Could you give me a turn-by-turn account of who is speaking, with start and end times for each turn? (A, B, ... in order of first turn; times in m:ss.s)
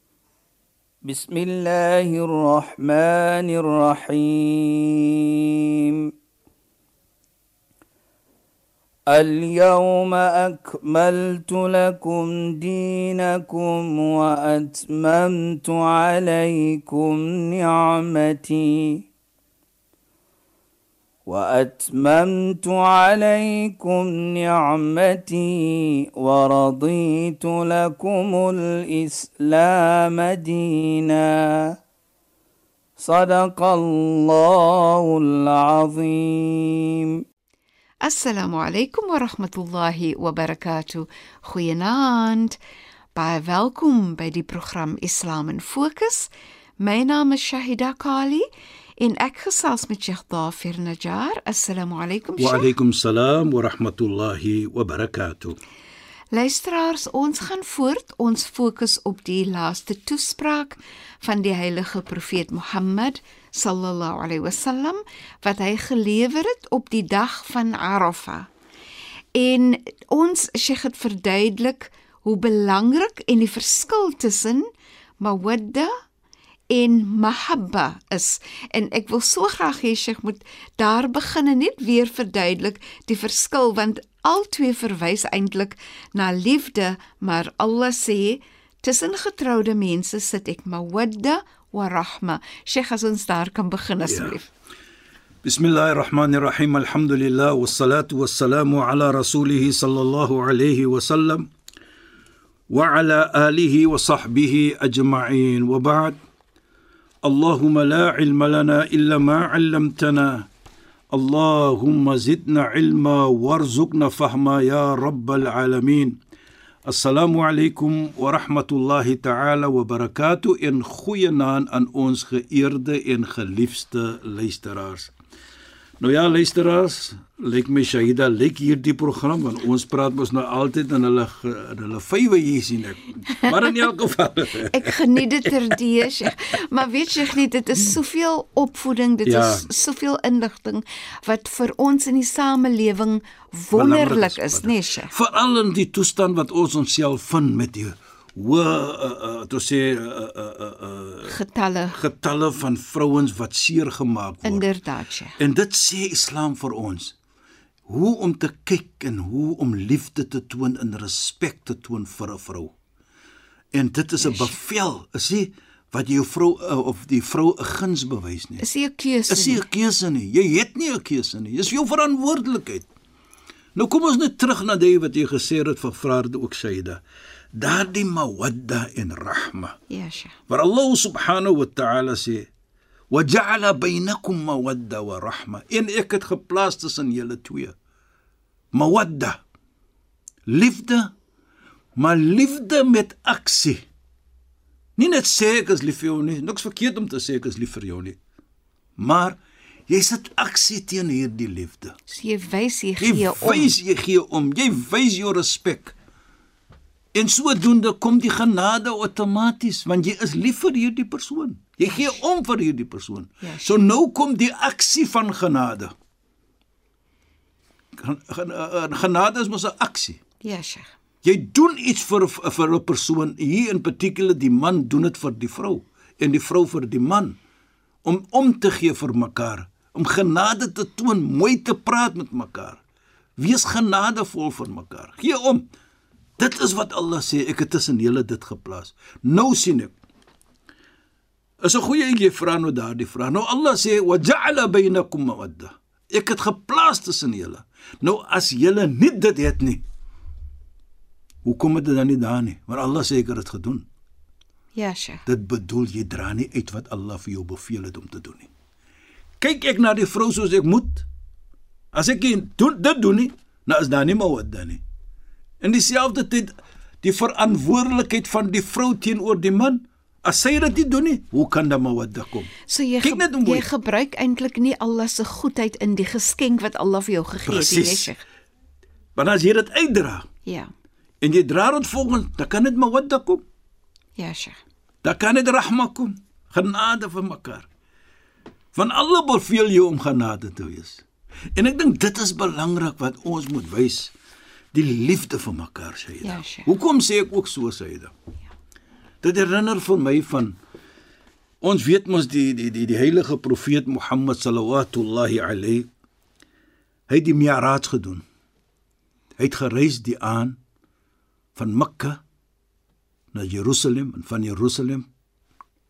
0:01.0-0:06.1 A
0:09.1-0:19.1 A
0:21.2-0:31.7 A
0:33.0-0:37.2 A
0:38.0-0:42.6 B
0:43.1-0:48.4 B
0:49.0-0:52.7 B
0:52.4-0:55.6 C
0:56.3-1:08.5 B
1:09.4-1:14.6 B
1:15.2-1:15.9 B
1:16.7-1:34.5 B
1:34.0-1:34.4 C
1:35.4-1:41.5 C
1:42.7-1:46.2 C
1:47.2-1:50.5 C
1:51.1-1:56.2 C
1:56.8-2:05.1 C
2:06.0-2:15.5 C
2:14.7-2:25.1 B
2:19.2-2:19.7 C
2:23.7-2:31.4 C
2:31.2-2:32.0 B
2:31.9-2:34.7 C
2:34.4-2:35.4 B
2:35.4-2:37.2 C
2:37.9-2:42.7 C
2:43.7-2:48.6 C
2:44.2-2:44.6 B
2:48.6-2:49.6 B
2:49.3-2:52.9 C
2:53.7-2:57.0 C
2:57.5-2:59.8 C
2:59.9-3:00.4 B
3:00.5-3:02.5 C
3:03.1-3:07.8 C
3:08.7-3:09.4 C
3:10.5-3:11.1 C
3:12.0-3:13.8 C
3:15.0-3:18.2 C
3:19.0-3:22.0 C
3:22.1-3:23.7 B
3:23.0-3:25.9 C
3:27.1-3:35.9 C
3:31.8-3:32.2 B
3:33.4-3:33.8 B
3:38.0-3:40.2 C
3:40.4-3:40.9 B
3:41.2-3:47.4 C
3:48.0-3:52.8 C
3:53.4-3:55.6 C
3:56.4-3:59.9 C
4:01.6-4:09.8 C
4:11.4-4:13.8 C
4:14.7-4:15.2 B
4:15.3-4:18.5 C
4:19.4-4:21.1 C
4:21.9-4:24.8 C
4:25.6-4:32.5 C
4:32.7-4:38.2 B
4:33.0-4:33.7 C
4:37.4-4:38.1 C
4:39.2-4:40.3 C
4:40.4-4:40.7 B
4:41.2-4:43.4 C
4:44.2-4:44.6 B
4:45.0-4:47.7 C
4:48.7-4:54.1 C
4:54.7-4:58.1 C
4:56.2-4:56.7 B
4:59.2-5:00.6 C
5:01.6-5:05.9 C
5:07.1-5:08.2 C
5:09.4-5:10.6 C
5:11.5-5:12.2 C
5:13.3-5:15.1 C